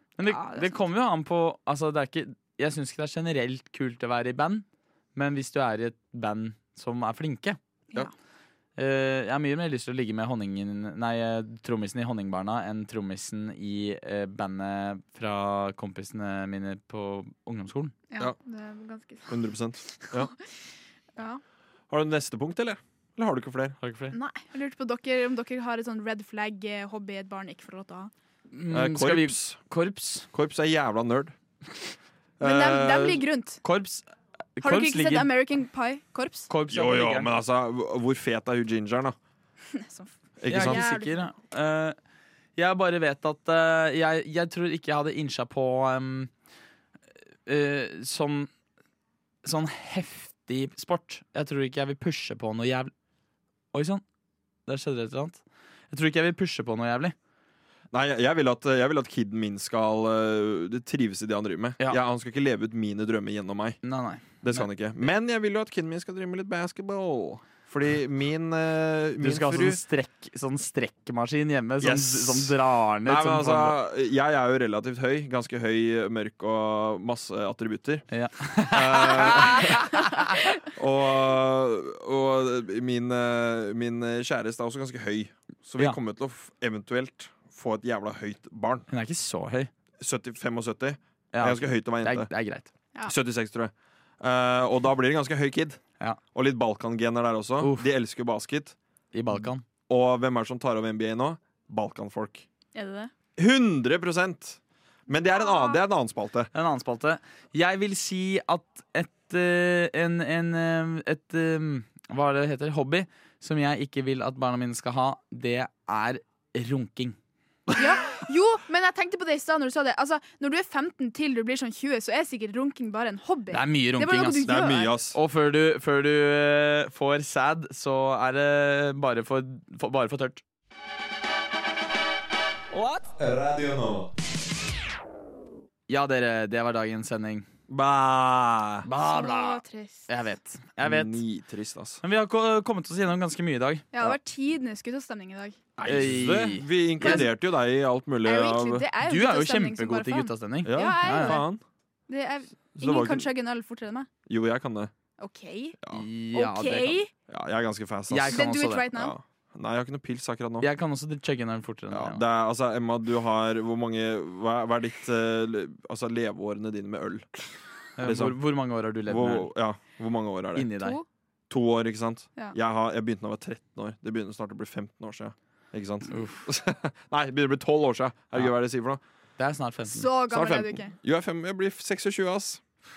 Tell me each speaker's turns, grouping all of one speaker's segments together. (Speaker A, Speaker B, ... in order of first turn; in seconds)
Speaker A: 0.2-7.6, 8.8-17.9, 23.8-24.1, 28.5-30.3, 33.6-34.0, 34.6-35.3, 36.5-37.3, 40.5-42.0, 42.6-46.3, 47.5-48.5, 49.4-52.9, 53.7-54.0, 54.7-57.1, 63.8-64.7, 69.2-73.8, 78.1-80.4, 88.9-89.7, 91.3-92.7, 97.6-97.9, 99.1-99.7, 106.5-117.2, 123.5-124.4, 125.1-130.4, 132.7-133.1, 135.9-137.4, 138.8-141.2, 142.0-144.1, 145.9-147.3, 149.0-151.4, 155.9-157.0, 158.1-158.9, 160.6-162.2, 168.0-169.5, 170.6-171.0, 176.1-176.4, 179.4-180.1
Speaker B: 0.2-0.8, 18.1-19.3, 24.1-28.1, 32.4-33.6, 34.6-36.5, 39.7-41.2, 102.8-103.1, 105.4-105.8, 117.8-125.0, 139.0-140.1, 143.9-145.6, 147.0-147.3, 148.2-151.5, 152.1-154.1, 155.2-155.8, 156.3-157.1, 158.3-159.1, 179.9-180.9
Speaker C: 19.3-20.3, 21.9-23.8, 28.7-29.6, 30.3-31.3, 32.4-33.2, 36.7-39.2, 40.4-40.9, 57.9-63.8, 64.4-69.8, 71.8-78.1, 78.6-80.0, 80.6-88.9, 90.0-92.3, 93.1-95.8, 96.3-98.8, 99.9-102.5, 103.4-106.5, 124.5-125.2, 133.1-134.1, 137.7-138.9, 140.8-142.0, 145.8-148.9, 150.7-151.6, 152.8-153.3, 154.3-154.9, 157.3-160.7, 161.9-167.3, 168.0-168.4, 169.1-170.7, 171.5-179.0, 180.3-182.6